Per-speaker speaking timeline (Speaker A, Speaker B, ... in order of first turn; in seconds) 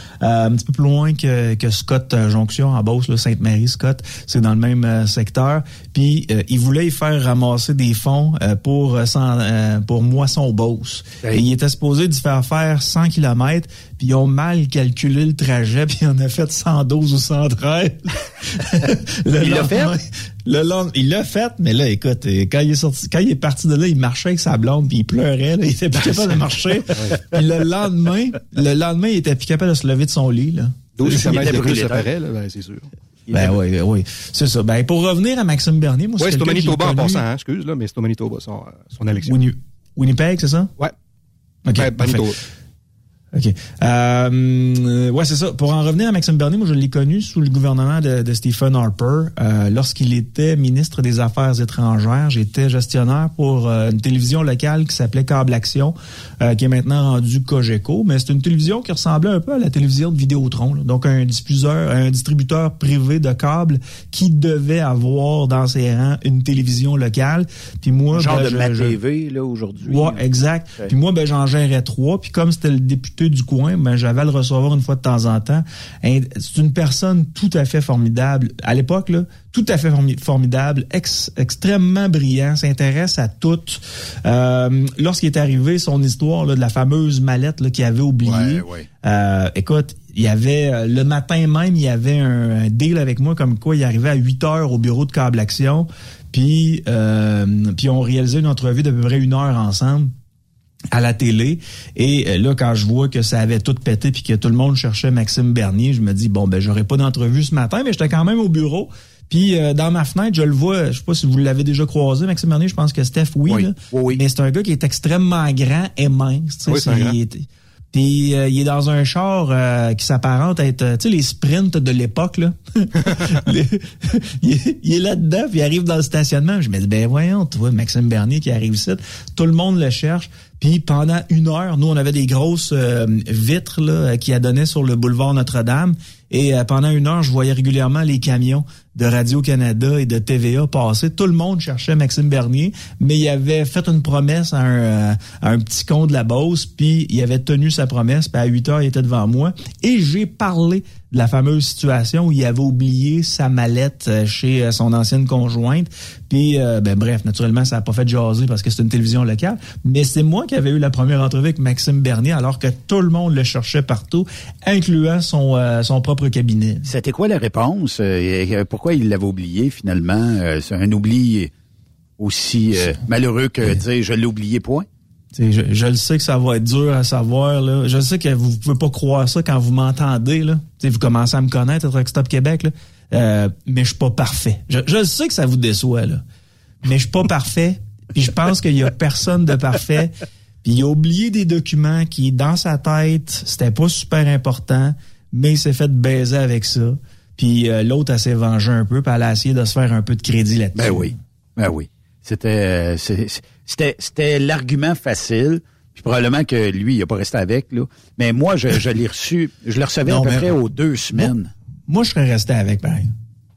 Speaker A: 0.2-31.6, 33.3-37.2, 39.3-40.7, 41.7-42.2, 43.3-69.0, 69.8-100.1, 100.9-166.9, 175.3-186.2, 186.8-201.1, 210.1-210.6, 211.9-213.1
Speaker B: 19.4-20.0, 31.1-32.1, 68.1-70.2, 88.2-88.9, 113.5-114.2, 166.8-171.5, 172.2-174.9, 200.8-211.5
Speaker C: 31.0-32.9, 36.2-39.4, 41.8-42.4, 116.7-117.2